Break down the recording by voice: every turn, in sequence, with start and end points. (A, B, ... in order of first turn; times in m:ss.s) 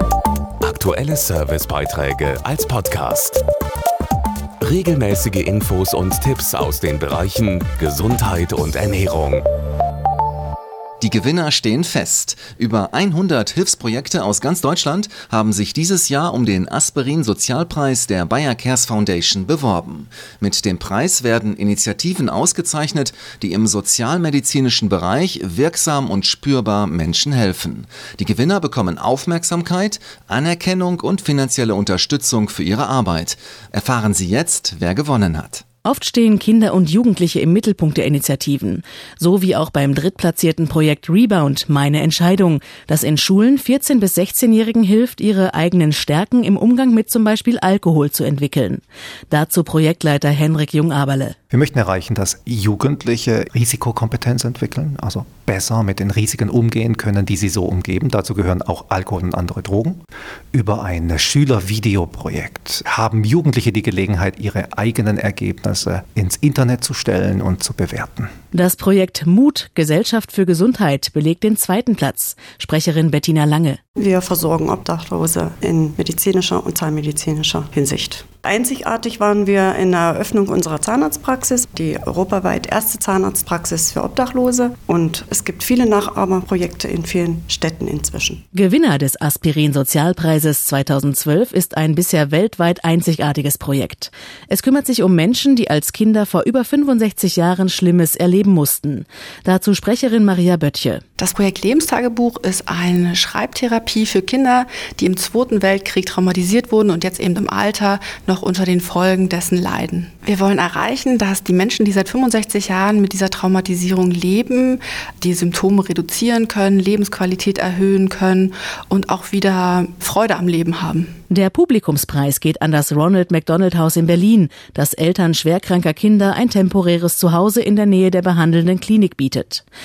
0:00.6-0:03.4 A
0:04.6-0:09.4 A
0:11.0-0:35.6 B
0:35.8-0:51.4 C
0:51.5-1:00.0 D
1:00.5-1:08.3 D
1:08.5-1:13.8 C
1:14.0-1:28.4 E
1:28.5-1:41.0 C
1:41.2-2:01.1 F
2:01.3-2:09.6 C